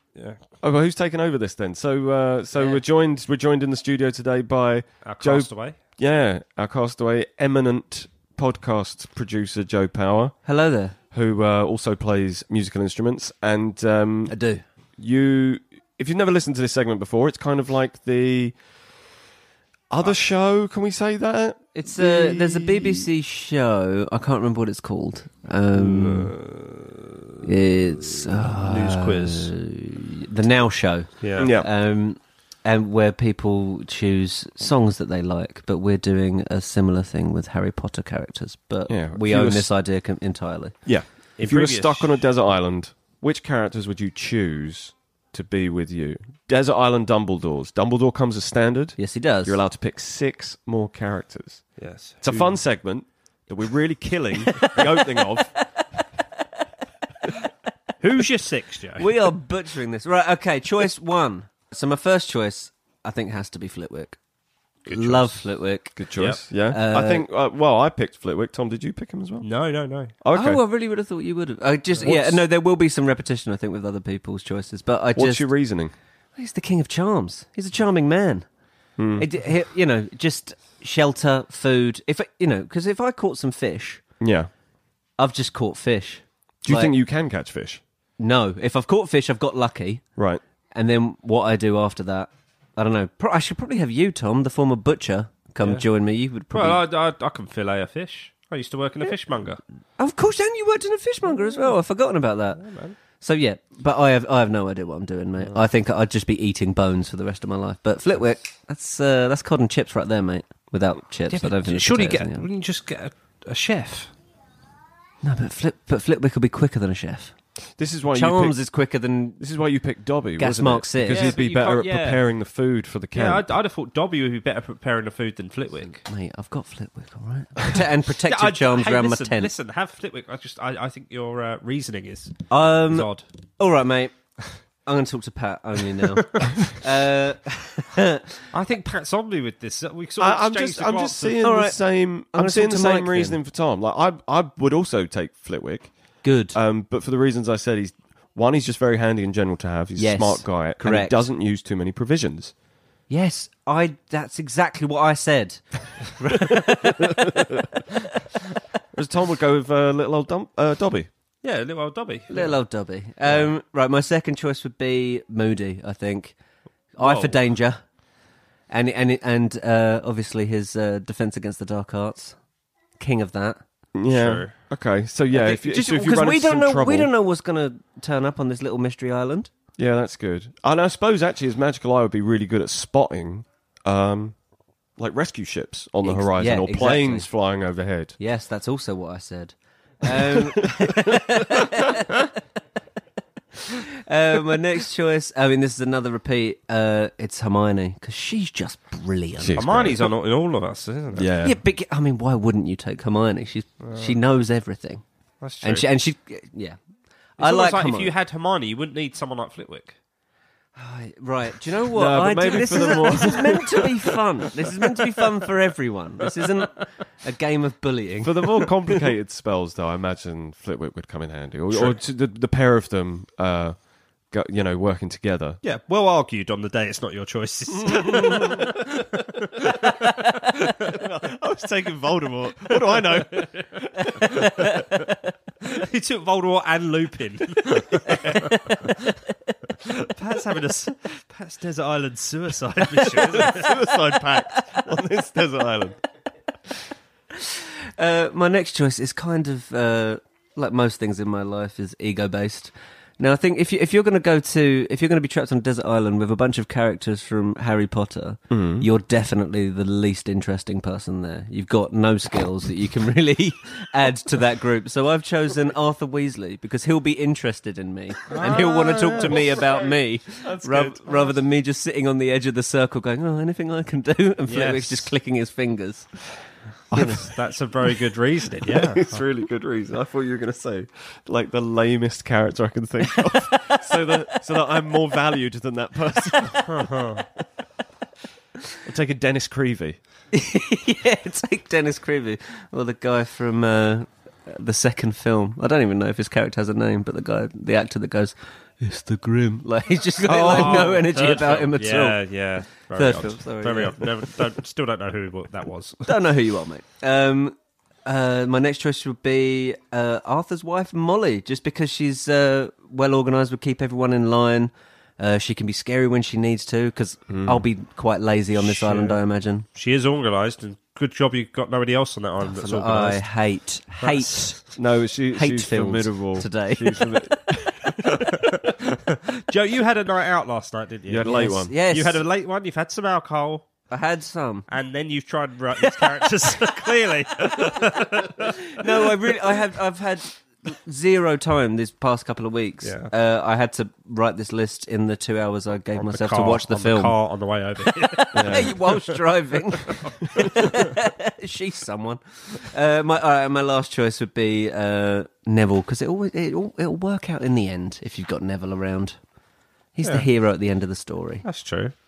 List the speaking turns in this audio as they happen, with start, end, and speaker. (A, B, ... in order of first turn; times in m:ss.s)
0:00.6-0:10.4 A
0:05.0-0:05.8 B
0:10.4-0:10.9 C
0:11.1-0:14.4 A
0:14.3-0:14.6 C
0:15.0-0:18.6 A
0:19.9-0:23.1 A
0:21.7-0:26.3 C
0:25.7-0:27.0 B
0:27.4-0:40.7 C
0:28.0-0:29.5 B
0:31.2-0:31.5 B
0:31.4-0:31.7 A
0:38.9-0:39.7 A
0:40.8-0:55.5 A
0:41.4-0:42.2 B
0:49.0-0:49.6 C
0:51.8-0:52.6 B
0:54.6-0:55.6 C
0:58.0-0:59.1 B
0:59.0-1:04.2 C
1:04.8-1:06.0 C
1:04.9-1:05.2 B
1:06.0-1:09.5 A
1:06.7-1:07.2 C
1:09.4-1:10.1 B
1:10.2-1:10.6 A
1:10.3-1:15.5 C
1:12.0-1:12.4 A
1:15.1-1:15.9 A
1:16.4-1:18.4 C
1:19.0-1:19.3 A
1:19.2-1:24.0 C
1:24.2-1:24.5 A
1:25.2-1:26.9 C
1:26.6-1:27.8 A
1:28.2-1:30.0 C
1:30.2-1:30.4 A
1:30.7-1:36.8 C
1:35.6-1:35.8 B
1:36.5-1:39.6 B
1:40.0-1:52.5 C
1:41.3-1:41.7 B
1:42.6-1:43.0 B
1:51.3-1:54.1 B
1:55.2-1:57.3 C
1:57.8-1:58.6 A
1:58.1-1:59.4 C
1:59.4-2:03.4 A
2:00.4-2:01.4 C
2:01.1-2:02.2 B
2:03.1-2:06.0 B
2:05.9-2:09.5 C
2:08.2-2:13.2 B
2:12.5-2:14.2 C
2:14.8-2:18.4 C
2:16.2-2:16.5 B
2:18.5-2:21.4 B
2:20.2-2:32.5 A
2:21.4-2:23.4 C
2:26.2-2:26.6 C
2:30.0-2:31.2 C
2:33.1-2:37.8 C
2:38.9-2:41.1 A
2:41.4-2:42.6 B
2:42.3-2:46.4 C
2:46.9-2:47.8 C
2:47.0-2:47.4 B
2:48.7-2:52.4 C
2:53.0-2:53.6 C
2:53.9-2:57.1 A
2:54.1-2:54.5 B
2:55.3-2:59.5 C
2:59.8-3:04.4 A
3:05.0-3:08.2 A
3:06.0-3:07.3 C
3:08.2-3:12.3 C
3:13.5-3:19.8 C
3:19.4-3:20.1 A
3:19.6-3:21.3 B
3:21.1-3:21.6 A
3:21.4-3:25.0 C
3:23.8-3:24.2 B
3:25.4-3:25.9 B
3:25.6-3:26.8 C
3:27.4-3:28.1 C
3:27.4-3:30.0 B
3:30.8-3:38.7 C
3:31.9-3:34.2 A
3:38.2-3:45.6 A
3:45.6-3:51.0 B
3:48.1-3:48.4 C
3:50.8-3:54.7 A
3:52.6-3:53.6 B
3:54.1-3:55.0 C
3:54.2-3:54.7 B
3:55.6-3:58.9 B
3:58.1-3:58.8 C
3:58.1-3:58.4 A
3:59.8-4:03.8 B
4:03.0-4:06.0 A
4:07.3-4:36.3 C
4:18.5-4:18.8 A
4:28.3-4:29.6 B
4:28.4-4:31.4 A
4:34.5-4:35.1 B
4:36.9-4:37.3 A
4:36.9-4:37.3 C
4:37.0-4:39.2 B
4:38.6-4:47.2 A
4:46.7-4:47.2 B
4:48.8-4:50.0 A
4:50.3-5:02.2 C
5:00.2-5:06.1 B
5:00.3-5:00.9 A
5:02.9-5:04.3 C
5:06.0-5:19.6 C
5:17.3-5:17.6 A
5:18.6-5:23.3 B
5:22.4-5:24.7 C
5:24.0-5:24.6 B
5:24.7-5:28.7 A
5:25.3-5:27.2 C
5:28.2-5:33.7 B
5:31.0-5:31.7 A
5:31.2-5:32.2 C
5:33.9-5:34.7 C
5:34.7-5:39.1 B
5:35.8-5:47.2 C
5:42.8-5:43.1 B
5:45.9-5:49.2 B
5:48.0-5:59.2 C
5:48.3-5:48.7 A
5:49.9-5:50.7 B
5:59.9-6:01.4 C
6:00.0-6:00.3 B
6:01.4-6:01.9 B